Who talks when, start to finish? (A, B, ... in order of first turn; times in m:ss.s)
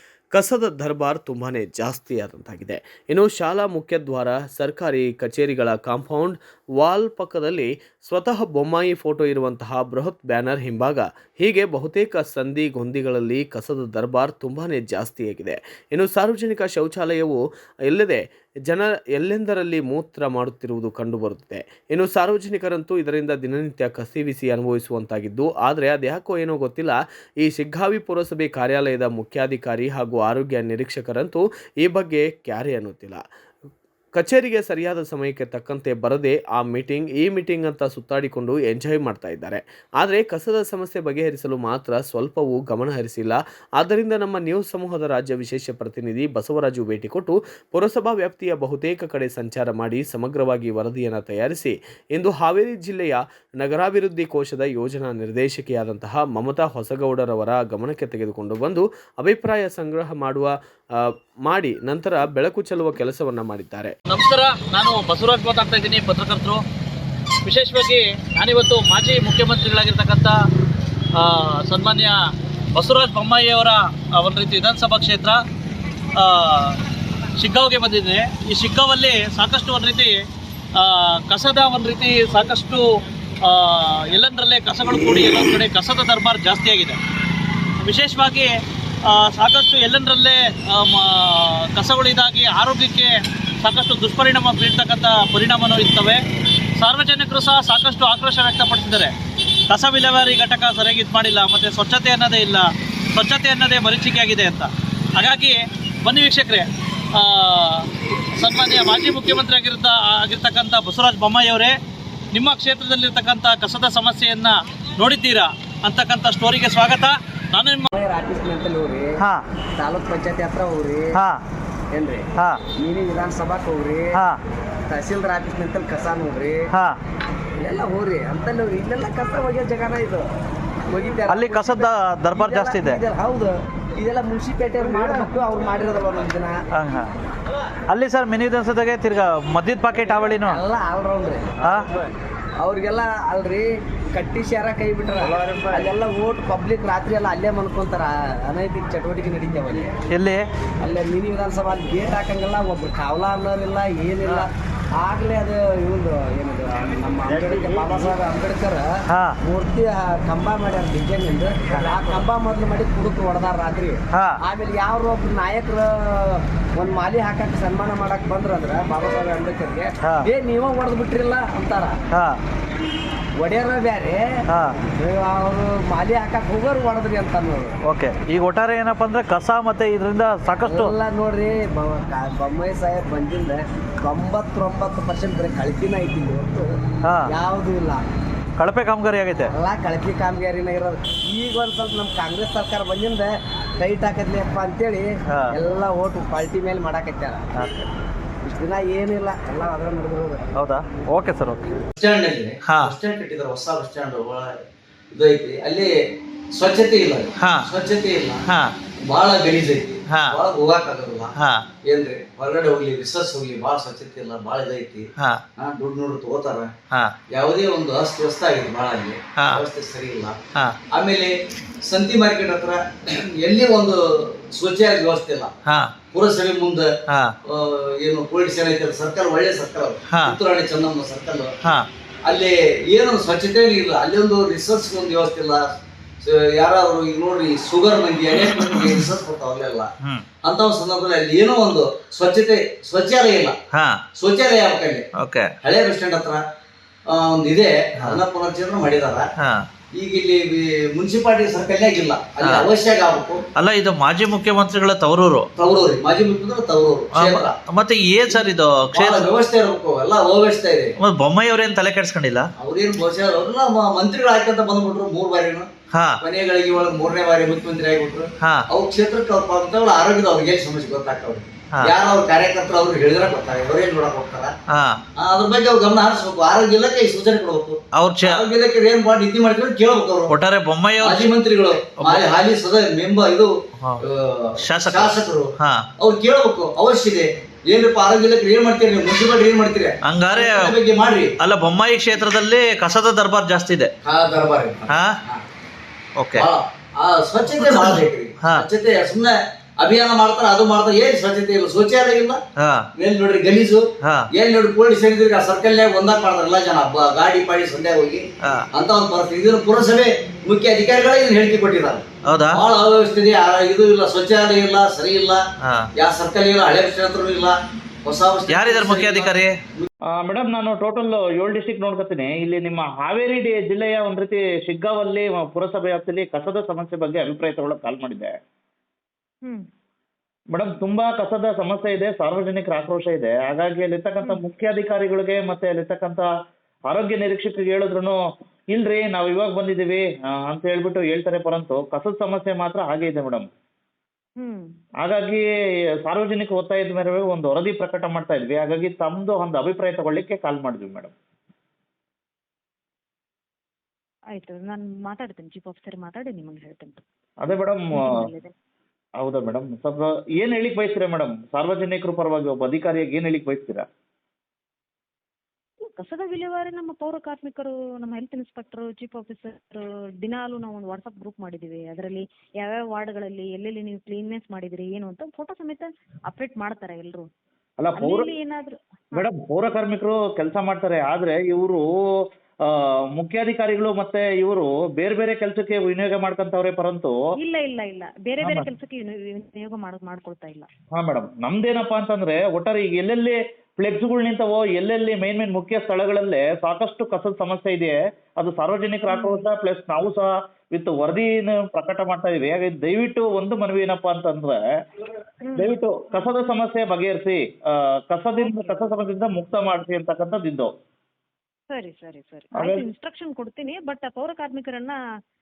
0:00.3-0:33.2 A
0:34.1-1:03.9 A
1:04.1-1:06.6 B
1:07.4-1:10.4 B
1:11.2-1:12.2 B
1:12.7-1:15.4 B
1:16.2-1:16.8 B
1:17.4-1:22.8 B
1:23.4-1:27.0 B
1:27.8-1:28.6 B
1:29.1-1:36.2 B
1:36.8-1:39.1 B
1:39.7-1:51.8 B
1:52.3-1:57.9 B
1:57.9-1:59.2 C
1:59.8-2:01.2 C
2:01.9-2:02.2 C
2:02.8-2:04.2 C
2:04.9-2:06.6 C
2:07.6-2:10.2 C
2:10.9-2:16.6 C
2:11.3-2:13.0 D
2:16.8-2:17.0 D
2:17.9-2:20.6 D
2:20.5-2:21.8 C
2:22.6-2:29.8 C
2:30.1-2:30.4 D
2:30.8-2:34.5 C
2:35.0-2:38.8 C
2:39.4-2:51.9 C
2:53.4-2:54.2 C
2:55.0-2:57.7 C
2:57.9-3:00.9 D
3:00.6-3:06.7 C
3:07.2-3:08.0 C
3:08.6-3:09.5 D
3:09.6-3:17.4 C
3:18.4-3:20.4 C
3:20.6-3:21.6 D
3:22.0-3:24.5 E
3:22.7-3:22.9 D
3:25.1-3:25.9 E
3:26.6-3:28.4 E
3:27.4-3:27.7 D
3:28.5-3:28.7 D
3:29.1-3:31.3 E
3:30.1-3:30.4 D
3:31.4-3:31.6 D
3:31.9-3:36.7 E
3:37.3-3:40.4 E
3:39.4-3:39.6 D
3:41.0-3:42.8 E
3:43.4-3:44.0 E
3:44.5-3:45.5 E
3:45.7-3:45.9 D
3:46.1-3:46.8 E
3:47.6-3:51.5 E
3:50.1-3:50.4 D
3:52.3-3:55.6 E
3:56.2-3:59.9 E
3:58.4-3:59.0 D
4:00.4-4:03.6 E
4:04.2-4:05.0 E
4:05.2-4:05.5 D
4:05.6-4:06.4 E
4:07.1-4:09.2 E
4:09.4-4:09.6 D
4:10.0-4:13.4 E
4:12.4-4:12.7 D
4:13.6-4:15.5 D
4:15.6-4:17.6 E
4:17.2-4:19.3 D
4:18.3-4:20.9 E
4:21.0-4:22.5 D
4:22.6-4:25.7 E
4:25.9-4:26.2 D
4:26.2-4:34.5 E
4:34.7-4:35.0 D
4:35.2-4:40.4 E
4:37.9-4:38.5 D
4:40.3-4:41.3 D
4:41.0-4:43.5 E
4:42.0-4:42.2 D
4:44.1-4:45.5 E
4:44.6-4:45.8 D
4:46.0-4:51.3 E
4:50.0-4:50.7 D
4:51.4-4:53.9 D
4:54.0-4:55.4 E
4:54.9-4:55.2 D
4:56.2-4:56.4 D
4:56.3-5:02.4 E
4:57.6-4:58.6 D
5:02.6-5:02.8 D
5:03.0-5:03.8 E
5:04.3-5:15.4 E
5:12.2-5:12.6 D
5:15.6-5:15.9 D
5:16.0-5:19.9 E
5:18.5-5:19.5 D
5:20.2-5:28.3 F
5:30.5-5:36.3 F
5:36.9-5:38.2 F
5:38.7-5:43.4 F
5:44.4-5:44.6 G
5:45.0-5:45.4 F
5:46.1-5:51.1 F
5:54.3-5:57.0 G
5:57.4-5:58.1 F
5:57.9-5:58.5 G
5:59.2-6:03.8 F
6:05.8-6:17.3 G
6:17.8-6:18.3 F
6:18.0-6:19.2 G
6:19.1-6:21.8 F
6:22.6-6:27.2 F
6:27.4-6:30.7 G
6:28.4-6:28.7 F
6:31.0-6:44.6 F
6:39.1-6:39.4 G
6:45.4-6:46.2 G
6:45.6-6:47.4 F
6:48.1-6:50.7 F
6:48.4-6:48.9 G
6:51.7-6:55.0 G
6:52.6-6:52.8 F